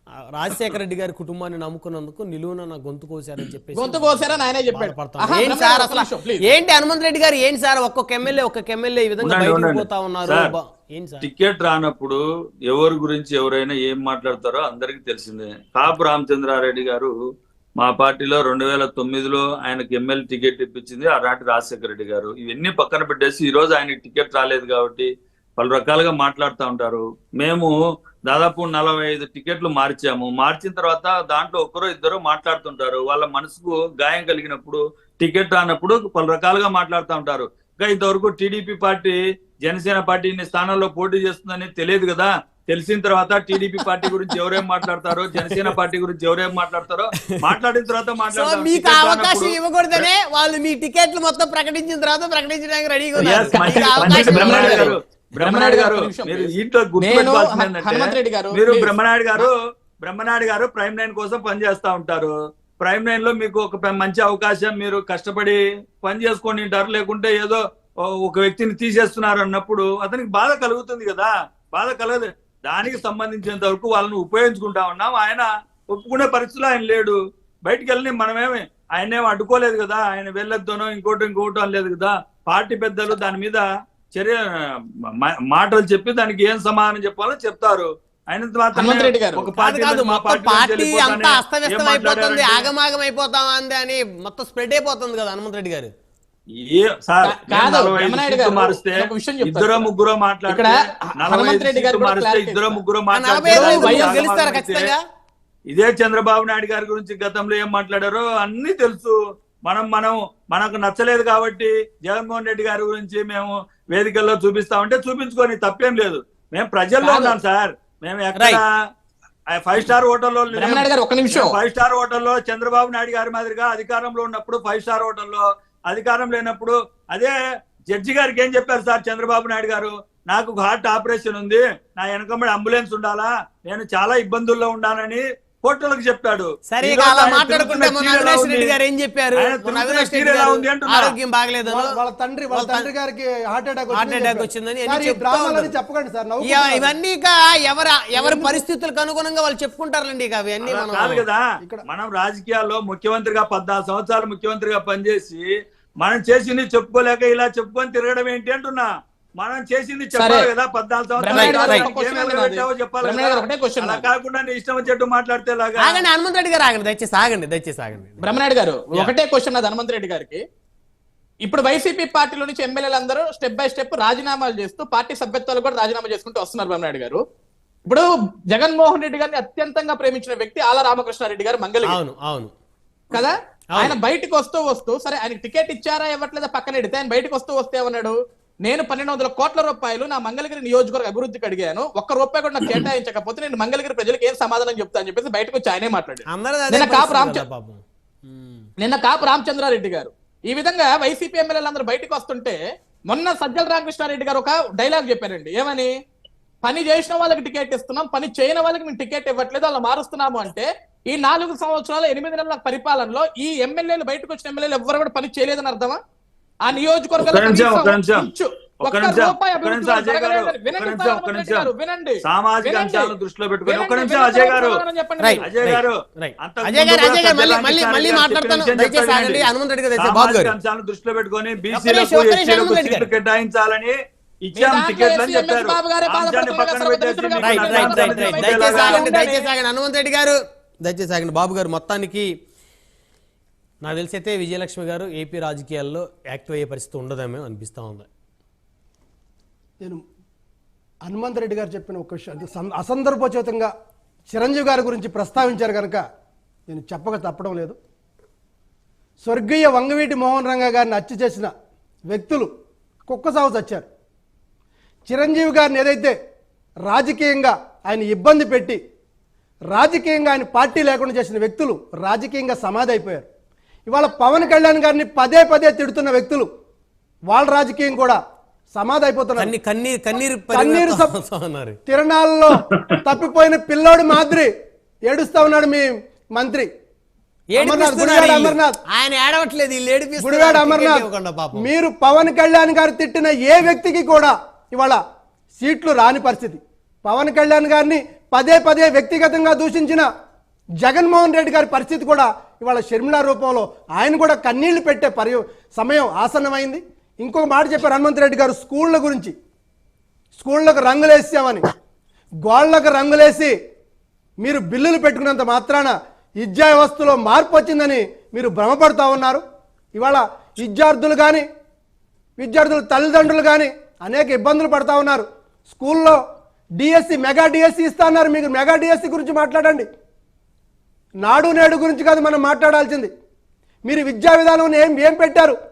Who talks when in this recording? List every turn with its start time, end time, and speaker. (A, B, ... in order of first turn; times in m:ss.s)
0:00.2-0:11.3 A
0:03.8-0:06.4 B
0:09.2-0:10.6 C
0:11.2-0:17.2 C
0:17.8-0:27.7 C
0:28.3-0:50.1 C
0:45.4-0:45.7 A
0:48.3-0:55.0 A
0:53.2-1:07.6 C
0:53.3-0:59.5 B
1:08.2-1:24.5 C
1:25.2-1:32.7 C
1:28.8-1:29.0 A
1:28.8-1:29.5 B
1:29.6-1:35.9 A
1:36.6-1:44.9 C
1:37.2-1:39.9 B
1:40.5-1:42.8 B
1:43.1-1:45.0 A
1:43.4-1:44.2 B
1:45.7-1:58.6 C
1:57.0-1:57.4 B
1:58.4-1:58.6 A
1:59.5-2:07.4 C
2:00.5-2:01.6 B
2:07.9-2:18.8 C
2:16.7-2:22.0 A
2:19.4-2:21.2 C
2:21.7-2:27.0 D
2:22.5-2:22.9 A
2:23.9-2:25.8 A
2:26.4-2:31.2 A
2:28.1-2:28.6 D
2:30.6-2:35.5 C
2:36.0-2:46.1 C
2:40.2-2:40.5 B
2:41.2-2:44.1 B
2:41.3-2:41.9 A
2:45.8-2:48.3 A
2:48.2-2:50.4 B
2:51.4-2:57.2 B
2:57.9-3:02.0 B
3:01.8-3:02.5 A
3:03.1-3:17.4 B
3:16.3-3:18.7 A
3:18.8-3:22.6 B
3:23.1-3:25.9 B
3:26.6-3:36.0 B
3:36.7-3:43.1 B
3:37.2-3:38.3 C
3:38.8-3:41.7 C
3:42.3-3:44.8 C
3:43.7-3:45.4 B
3:45.2-3:50.6 A
3:45.4-3:49.5 C
3:50.0-3:59.1 C
3:51.7-3:53.1 A
3:54.6-3:59.5 B
3:57.4-4:02.3 A
4:03.8-4:08.1 A
4:11.0-4:13.7 D
4:14.3-4:16.0 D
4:16.7-4:17.8 D
4:19.2-4:21.5 D
4:22.1-4:22.5 D
4:23.1-4:23.9 D
4:25.1-4:26.2 D
4:26.9-4:28.8 D
4:29.7-4:33.3 D
4:33.9-4:36.5 D
4:37.3-4:38.2 D
4:38.7-4:39.5 D
4:39.4-4:41.8 A
4:40.5-4:41.1 D
4:41.9-4:44.5 D
4:45.1-4:46.7 D
4:47.5-4:51.7 A
4:47.6-4:48.8 D
4:50.2-4:55.0 D
4:55.6-5:00.1 D
5:00.8-5:09.3 D
5:10.4-5:11.6 D
5:12.4-5:13.5 D
5:14.4-5:19.4 D
5:20.0-5:21.4 D
5:22.4-5:26.2 D
5:26.8-5:29.9 D
5:31.2-5:33.1 D
5:33.8-5:35.6 D